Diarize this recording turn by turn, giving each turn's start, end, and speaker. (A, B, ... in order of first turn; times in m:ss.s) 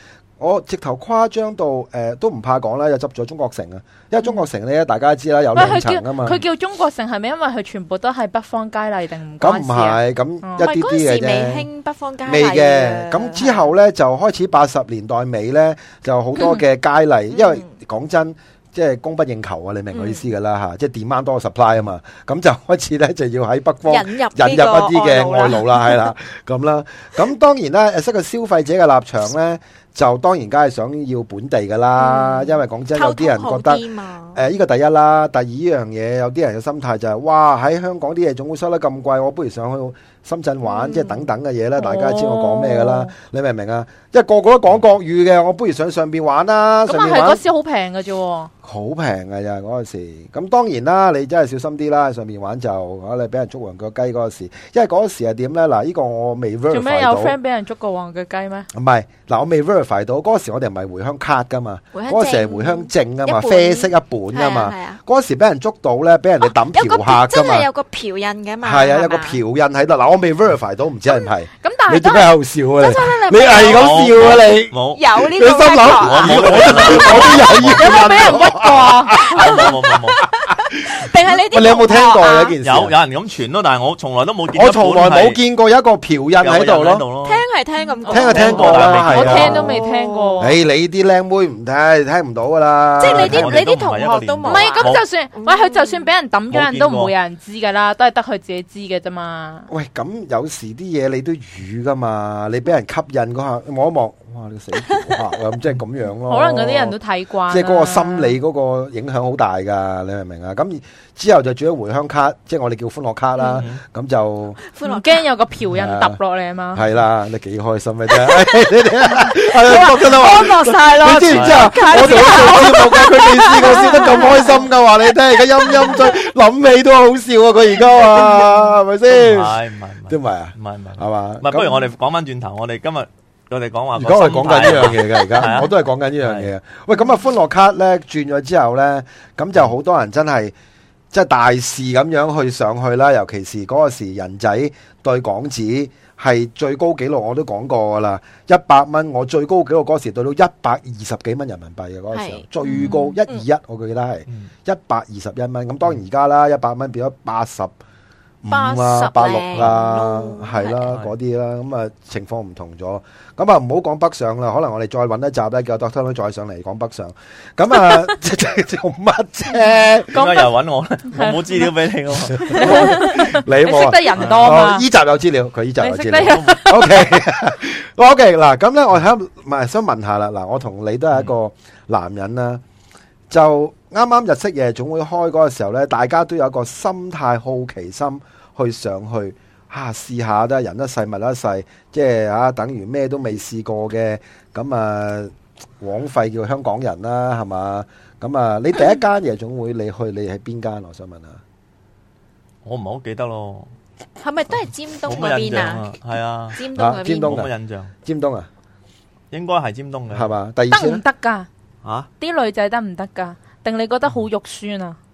0:00.4-0:06.4 A
0:05.5-0:10.6 B
0:09.4-0:11.7 A
0:10.6-0:13.7 C
0:12.2-0:33.8 A
0:17.3-0:17.7 C
0:19.9-0:20.3 C
0:23.9-0:26.0 C
0:32.0-0:34.4 C
0:34.3-0:47.4 A
0:40.6-0:41.3 C
0:41.8-0:43.1 B
0:46.9-0:48.5 B
0:48.6-0:57.4 A
0:56.7-0:58.7 B
0:58.7-1:07.7 A
1:01.9-1:05.0 C
1:06.7-1:09.4 C
1:08.6-1:19.7 A
1:11.6-1:12.3 B
1:12.8-1:14.4 C
1:13.5-1:15.0 D
1:14.9-1:18.1 C
1:15.8-1:17.9 D
1:17.7-1:19.2 B
1:19.3-1:20.2 D
1:19.3-1:22.5 C
1:20.9-1:22.9 A
1:22.6-1:25.4 D
1:24.5-1:27.0 A
1:26.4-1:27.4 D
1:27.2-1:30.5 C
1:28.1-1:29.8 A
1:28.1-1:28.4 B
1:28.1-1:29.6 D
1:28.9-1:30.5 B
1:30.4-1:33.6 A
1:33.0-1:36.0 C
1:33.0-1:35.0 D
1:34.4-1:39.7 B
1:36.5-1:37.1 D
1:39.7-1:47.0 A
1:44.8-1:45.2 C
1:46.3-1:48.4 B
1:47.5-1:54.6 A
1:53.4-1:53.6 C
1:53.6-1:53.8 D
1:54.7-1:55.2 C
1:54.8-1:56.8 B
1:55.7-1:56.2 A
1:56.7-2:11.8 A
1:58.1-1:58.5 C
1:59.2-2:04.7 C
2:01.3-2:01.7 D
2:01.6-2:04.4 B
2:05.6-2:06.1 C
2:09.1-2:15.7 D
2:14.0-2:20.5 A
2:16.2-2:16.5 D
2:21.1-2:37.7 A
2:32.1-2:33.2 C
2:32.6-2:33.1 B
2:38.4-2:50.2 A
2:38.5-2:40.9 C
2:50.1-2:50.5 B
2:50.1-2:53.0 D
2:51.1-2:51.7 B
2:52.4-3:02.6 A
2:52.4-2:54.8 B
2:55.8-2:57.1 B
3:03.3-3:21.4 A
3:22.6-3:23.7 D
3:24.2-3:25.9 C
3:25.0-3:26.6 D
3:26.5-3:27.4 C
3:26.7-3:27.5 A
3:27.2-3:27.9 D
3:28.0-3:28.5 A
3:29.3-3:30.3 D
3:30.1-3:31.0 A
3:30.7-3:31.5 B
3:32.2-3:35.0 B